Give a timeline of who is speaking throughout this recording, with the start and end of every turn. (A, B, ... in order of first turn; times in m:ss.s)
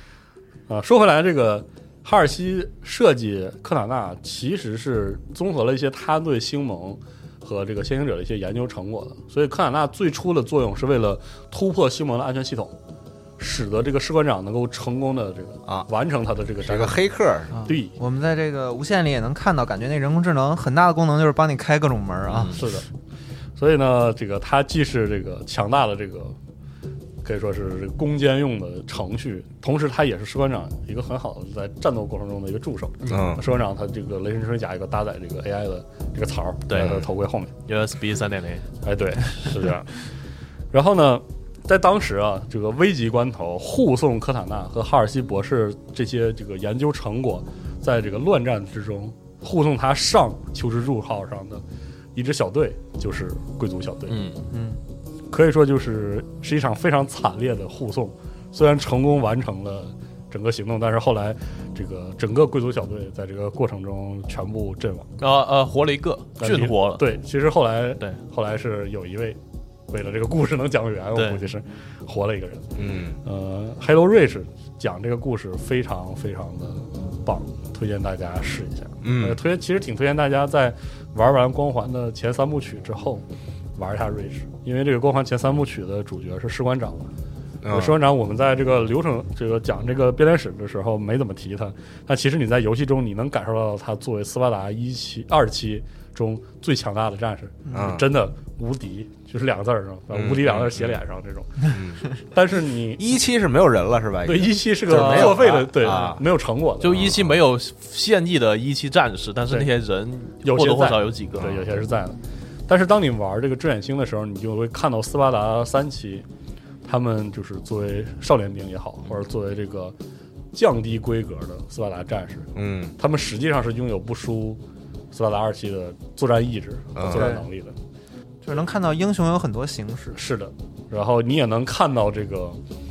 0:00.7-0:12.7 A
0:13.4-0:17.0 A
0:16.6-0:17.7 B
0:17.5-0:22.7 C
0:17.7-0:17.9 A
0:22.3-0:22.6 D
0:22.5-0:22.9 A
0:23.6-0:26.4 A
0:27.2-0:37.5 A
0:33.0-0:33.3 D
0:33.1-0:33.4 B
0:36.7-0:37.0 D
0:36.8-0:37.1 B
0:37.7-0:38.7 D
0:38.8-0:40.0 A
0:40.7-0:51.6 A
0:52.2-0:54.2 A
0:54.1-0:54.4 D
0:54.5-0:54.8 C
0:55.3-1:05.1 A
1:05.2-1:07.0 D
1:06.4-1:09.4 A
1:09.9-1:12.7 A
1:11.2-1:11.4 D
1:12.8-1:13.2 B
1:13.2-1:23.2 A
1:19.0-1:19.4 B
1:23.8-1:27.1 A
1:27.6-1:28.0 B
1:27.7-1:43.0 A
1:37.7-1:38.0 C
1:37.7-1:38.0 B
1:40.1-1:41.0 B
1:41.6-1:42.0 B
1:43.0-1:46.2 B
1:44.2-1:47.1 A
1:44.9-1:46.2 D
1:46.8-1:51.5 D
1:46.9-1:47.4 B
1:50.4-1:56.3 A
1:51.4-1:51.6 B
1:56.8-2:00.0 A
2:00.5-2:04.6 A
2:02.6-2:03.0 B
2:05.1-2:07.8 A
2:07.0-2:07.4 B
2:07.1-2:07.5 C
2:08.4-2:10.2 C
2:10.1-2:12.6 A